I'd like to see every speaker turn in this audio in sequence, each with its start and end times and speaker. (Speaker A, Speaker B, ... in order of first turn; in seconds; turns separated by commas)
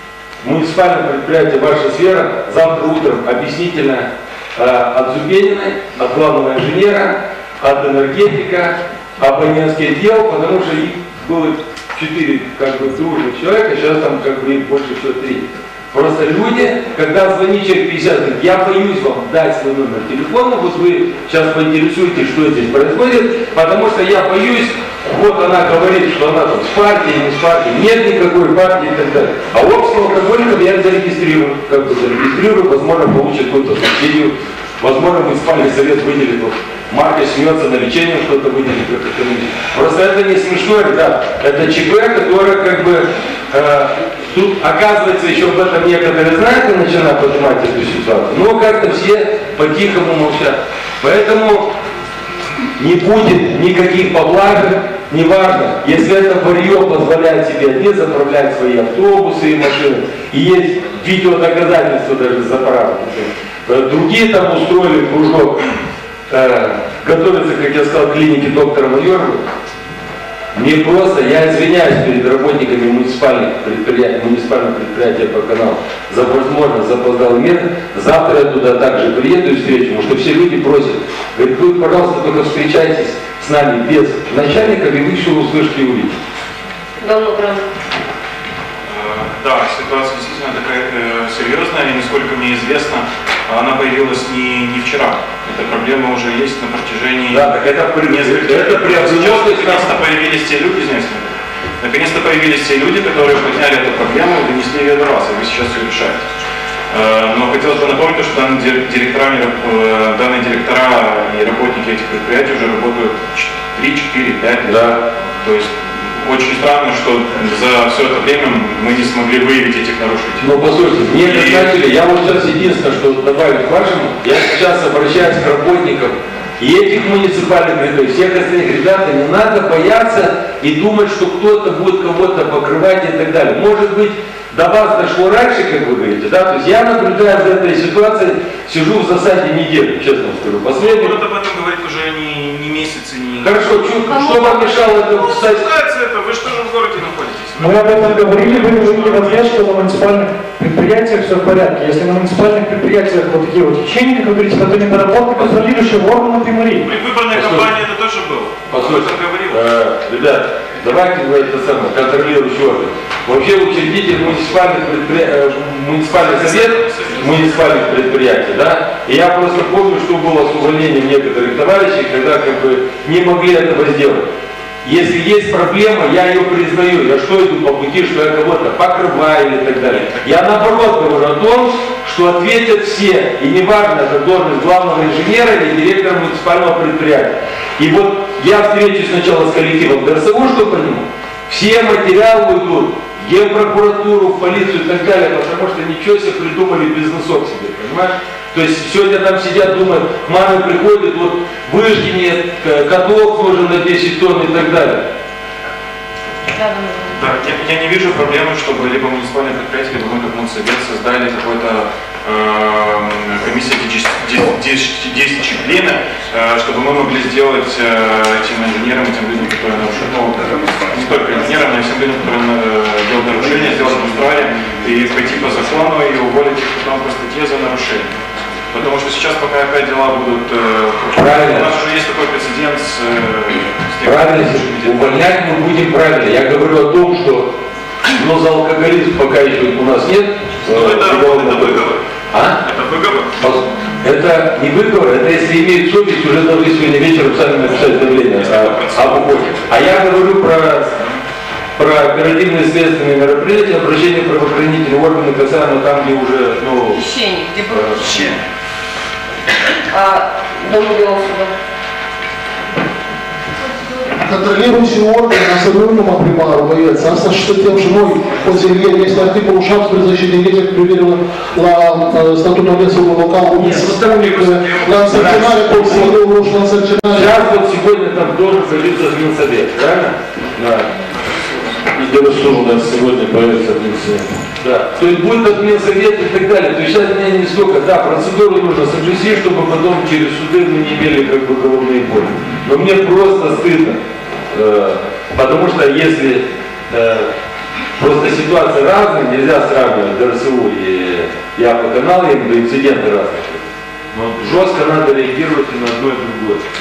Speaker A: 0.4-51.7, Speaker A: 52.8-65.6, Speaker A: 66.3-69.4, Speaker A: 70.5-86.1, Speaker B: 87.0-87.6, Speaker C: 88.8-106.3, Speaker A: 97.3-99.9, Speaker C: 106.9-114.9, Speaker A: 114.7-115.0, Speaker C: 115.4-120.5, Speaker A: 120.4-141.2, Speaker C: 121.2-121.7, Speaker C: 140.8-149.8, Speaker A: 143.4-145.7, Speaker B: 144.1-144.7, Speaker D: 147.6-156.9, Speaker C: 156.8-159.6, Speaker A: 157.3-157.7, Speaker A: 158.7-174.2, Speaker C: 166.1-167.5, Speaker A: 174.8-205.1, Speaker B: 206.5-207.2, Speaker C: 207.2-228.1, Speaker C: 228.7-235.2, Speaker A: 231.1-231.7, Speaker A: 234.0-237.5, Speaker A: 238.1-242.6, Speaker C: 240.7-242.0, Speaker C: 242.6-243.3, Speaker A: 243.4-250.9, Speaker C: 248.2-249.6, Speaker A: 251.8-257.1, Speaker B: 256.9-258.3, Speaker A: 257.7-258.2, Speaker B: 259.9-261.5, Speaker E: 264.2-277.4, Speaker A: 273.6-274.1, Speaker C: 273.9-275.7, Speaker A: 274.9-276.1, Speaker A: 277.1-280.9, Speaker F: 281.9-284.2, Speaker A: 284.6-294.0, Speaker A: 294.5-297.3, Speaker A: 297.9-306.6